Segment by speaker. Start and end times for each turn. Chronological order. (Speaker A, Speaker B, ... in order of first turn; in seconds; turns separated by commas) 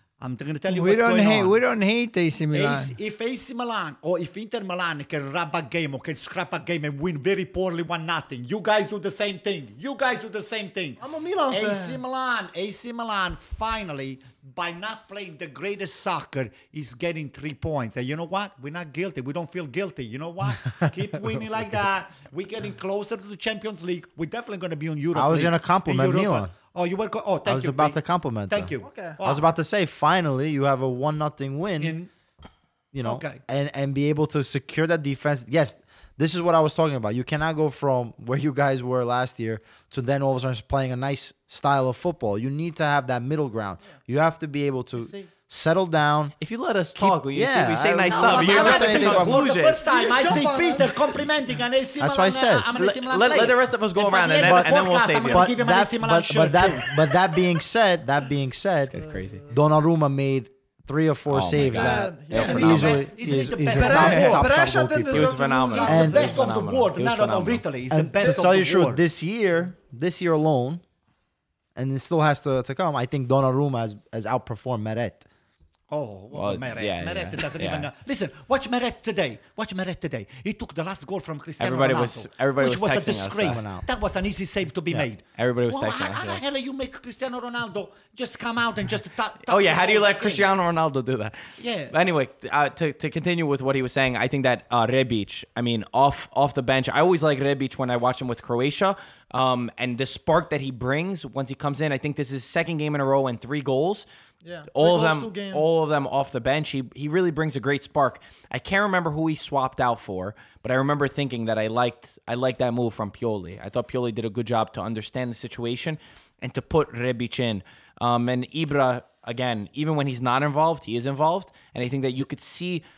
Speaker A: 0.2-1.6, Speaker B: 0.7-3.0, Speaker A: 2.5-29.5, Speaker C: 11.0-12.0, Speaker D: 25.1-26.5, Speaker D: 27.4-32.0, Speaker C: 28.8-29.2, Speaker A: 31.8-32.1, Speaker D: 32.9-46.3, Speaker A: 33.0-33.4, Speaker C: 45.0-45.3, Speaker E: 46.4-49.8, Speaker D: 47.0-49.5, Speaker A: 48.1-57.2, Speaker C: 49.8-51.2, Speaker D: 52.0-52.7, Speaker E: 52.8-55.5, Speaker D: 54.4-59.0, Speaker E: 58.9-59.5, Speaker C: 58.9-59.5, Speaker D: 59.5-66.4, Speaker E: 61.3-63.1, Speaker C: 61.7-66.2, Speaker A: 62.3-64.5, Speaker E: 63.8-64.4, Speaker E: 65.1-67.7, Speaker A: 65.7-69.0, Speaker D: 67.9-70.8, Speaker D: 71.8-75.2, Speaker A: 75.9-90.5, Speaker E: 76.3-77.9, Speaker E: 81.6-83.6, Speaker D: 83.4-83.9, Speaker E: 84.9-86.4, Speaker E: 89.5-104.1, Speaker A: 91.6-91.9, Speaker C: 104.4-105.8, Speaker E: 104.7-122.8